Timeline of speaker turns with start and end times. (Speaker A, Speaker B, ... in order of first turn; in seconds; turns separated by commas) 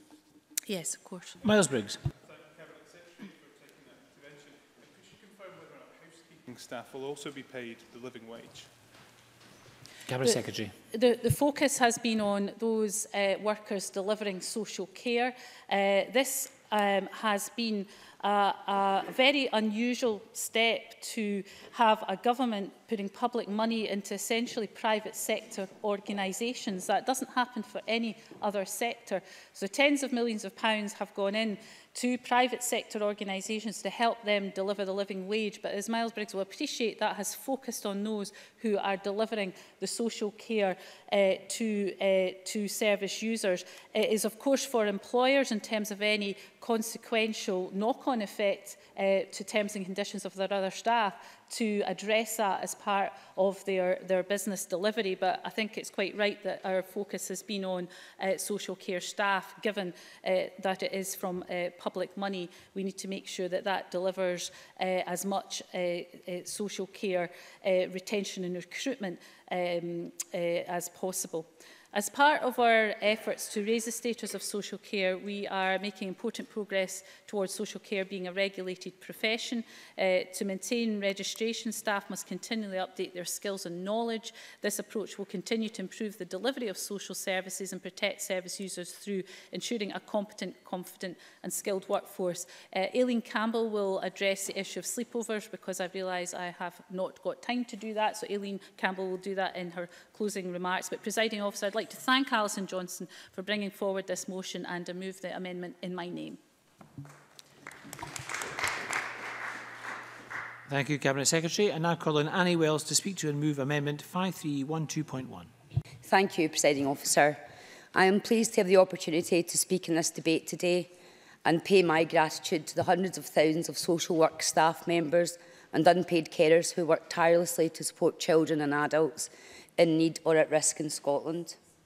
Speaker A: 0.7-1.4, Speaker B: 1.4-2.0, Speaker C: 2.3-8.7, Speaker B: 10.1-10.7, Speaker A: 10.2-106.4, Speaker B: 110.7-115.5, Speaker D: 116.0-117.4, Speaker D: 117.9-120.9, Speaker D: 121.5-131.6